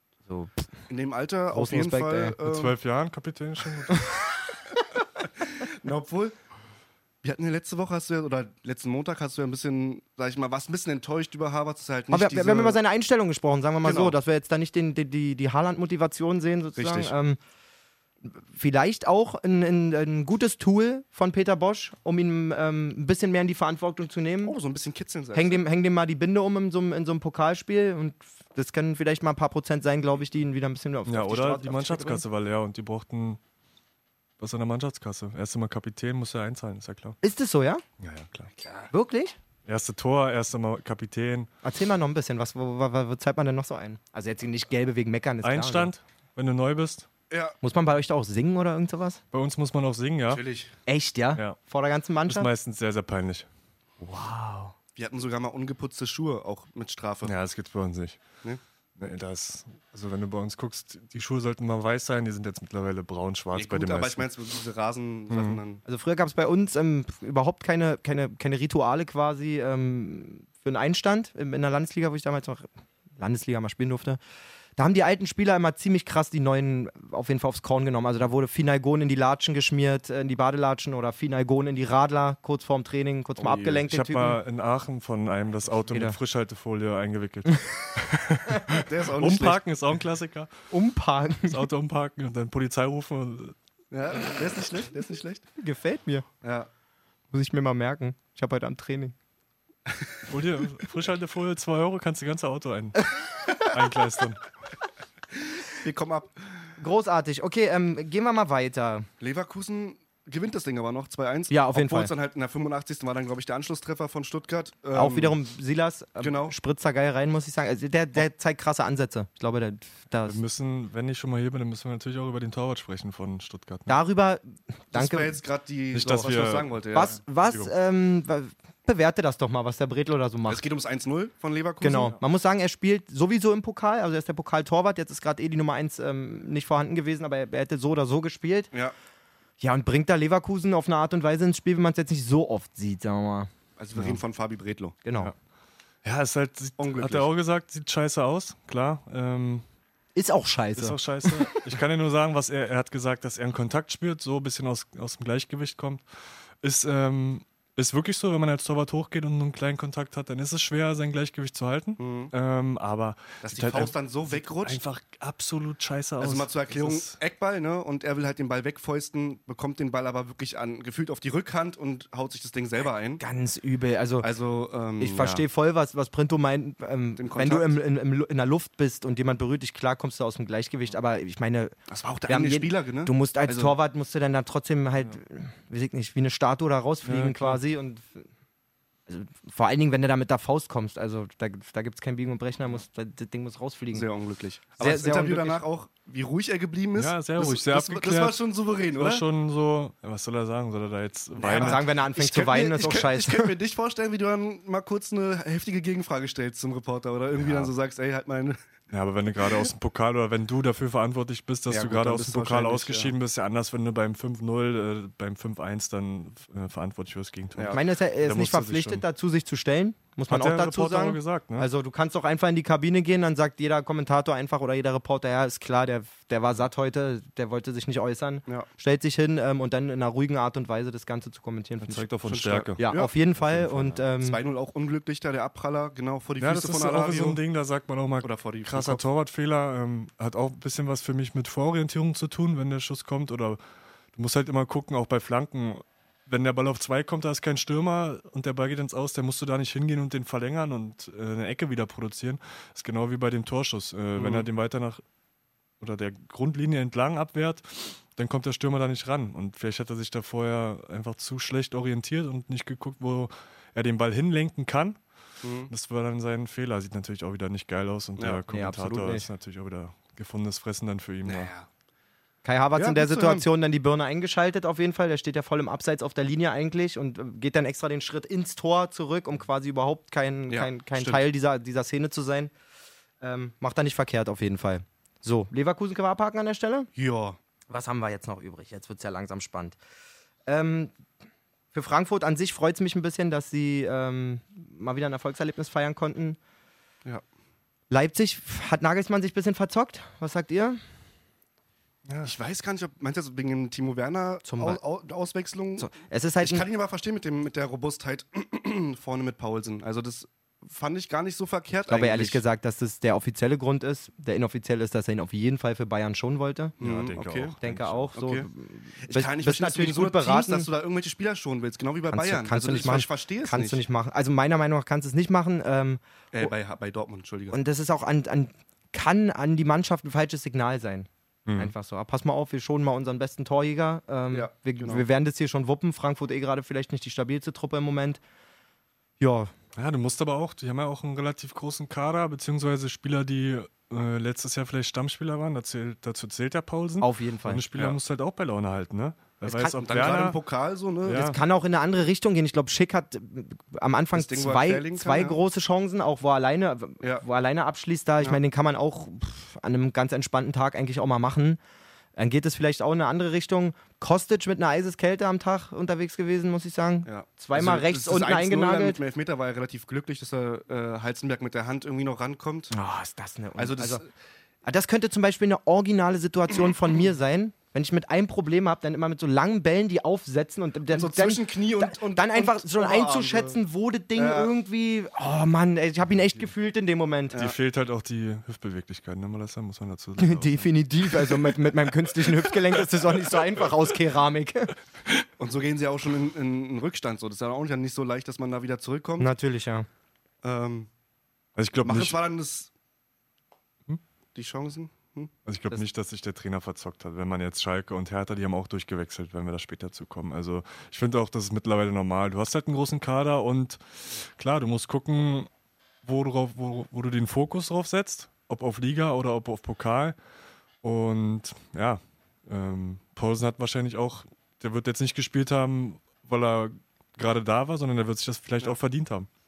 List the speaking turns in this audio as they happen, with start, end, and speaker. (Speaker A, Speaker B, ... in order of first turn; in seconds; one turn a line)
Speaker A: 0.3-0.7
Speaker B: 0.9-2.8
Speaker A: 1.5-2.4
Speaker C: 2.5-4.2
Speaker B: 5.5-6.3
Speaker B: 7.2-12.8
Speaker A: 12.1-17.4
Speaker B: 13.8-14.2
Speaker B: 16.8-17.1
Speaker A: 18.3-24.6
Speaker B: 24.4-25.6
Speaker A: 25.3-32.2
Speaker C: 31.1-33.4
Speaker C: 34.4-37.2
Speaker A: 37.2-37.8
Speaker C: 38.0-38.5
Speaker B: 38.6-38.9
Speaker A: 38.9-39.4
Speaker C: 39.7-41.5
Speaker A: 41.6-45.9
Speaker C: 45.4-47.1
Speaker B: 47.3-47.5
Speaker A: 47.6-49.2
Speaker C: 49.3-50.4
Speaker B: 50.3-50.7
Speaker A: 50.9-52.5
Speaker C: 52.3-53.5
Speaker A: 54.0-54.7
Speaker B: 55.0-57.3
Speaker C: 57.2-58.2
Speaker C: 59.0-64.3
Speaker B: 63.5-65.8
Speaker C: 65.3-65.6
Speaker A: 65.9-74.2
Speaker A: 74.8-84.4
Speaker C: 83.4-90.5
Speaker A: 85.9-86.2
Speaker B: 88.8-89.6
Speaker A: 90.7-91.7
Speaker C: 91.4-93.5
Speaker B: 93.9-95.5
Speaker A: 95.6-96.3
Speaker B: 96.4-96.7
Speaker A: 97.3-99.2
Speaker C: 100.3-104.4
Speaker B: 105.7-106.3
Speaker A: 106.8-109.1
Speaker B: 109.2-115.4
Speaker A: 111.5-112.1
Speaker A: 114.9-120.4
Speaker B: 116.2-116.5
Speaker C: 120.2-124.0
Speaker A: 123.9-125.4
Speaker B: 124.9-127.2
Speaker C: 125.9-126.8
Speaker A: 126.9-130.6
Speaker C: 127.4-127.7
Speaker B: 130.5-132.2
Speaker A: 131.8-138.7
Speaker A: 139.6-143.5
Speaker B: 143.8-145.0
Speaker A: 145.1-145.3
Speaker C: 146.0-149.6
Speaker B: 146.8-147.3
Speaker A: 150.2-151.6
Speaker C: 150.8-156.0
Speaker C: 156.6-167.2
Speaker B: 162.0-162.3
Speaker B: 163.4-164.8
Speaker B: 166.2-173.2
Speaker A: 173.2-174.3
Speaker B: 174.2-175.4
Speaker A: 175.0-181.8
Speaker B: 177.2-177.8
Speaker B: 181.9-183.8
Speaker A: 182.3-188.2
Speaker C: 187.0-187.6
Speaker A: 189.1-194.1
Speaker B: 193.9-199.2
Speaker A: 194.8-195.6
Speaker C: 197.0-198.4
Speaker C: 198.9-201.8
Speaker B: 201.4-208.6
Speaker A: 201.5-203.5
Speaker C: 207.3-207.7
Speaker C: 208.9-219.0
Speaker B: 211.7-213.1
Speaker A: 217.7-232.1
Speaker C: 220.3-221.7
Speaker C: 231.8-232.8
Speaker B: 232.2-233.1
Speaker A: 232.8-234.4
Speaker C: 233.4-234.0
Speaker B: 234.2-237.4
Speaker C: 236.4-243.6
Speaker B: 238.2-239.0
Speaker C: 244.1-255.0
Speaker B: 254.2-254.5
Speaker C: 255.8-265.0
Speaker B: 265.4-265.7
Speaker C: 265.7-271.5
Speaker A: 268.5-269.3
Speaker B: 271.2-271.7
Speaker A: 272.4-282.5
Speaker B: 272.8-273.5
Speaker B: 280.5-281.2
Speaker A: 283.2-286.9
Speaker B: 287.0-287.4
Speaker A: 287.7-289.8
Speaker A: 290.5-290.9
Speaker A: 291.7-296.4
Speaker A: 297.9-300.8
Speaker B: 302.1-312.4
Speaker A: 304.4-304.8
Speaker A: 305.8-306.7
Speaker A: 311.9-316.8
Speaker B: 316.8-317.6
Speaker C: 316.8-318.1
Speaker A: 317.6-320.7
Speaker B: 318.1-318.5
Speaker B: 319.0-323.8
Speaker A: 322.1-326.5
Speaker B: 326.3-327.6
Speaker A: 327.5-338.2
Speaker C: 331.5-331.7
Speaker B: 334.3-335.1
Speaker A: 339.2-339.5
Speaker C: 339.8-350.4
Speaker A: 347.0-347.6
Speaker A: 349.4-349.8
Speaker B: 349.8-351.2
Speaker C: 351.1-351.4
Speaker A: 351.1-361.6
Speaker B: 354.1-355.4
Speaker A: 362.2-369.0
Speaker B: 367.1-372.7
Speaker A: 372.7-374.0
Speaker B: 373.6-374.1
Speaker A: 374.6-387.4
Speaker B: 380.9-383.6
Speaker B: 384.1-384.5
Speaker C: 387.3-390.7
Speaker A: 390.2-394.7
Speaker B: 395.4-399.3
Speaker A: 399.2-399.9
Speaker B: 400.4-400.9
Speaker C: 401.6-402.2
Speaker B: 401.8-402.7
Speaker B: 404.4-405.3
Speaker C: 405.5-415.5
Speaker C: 416.0-420.1
Speaker C: 420.8-429.3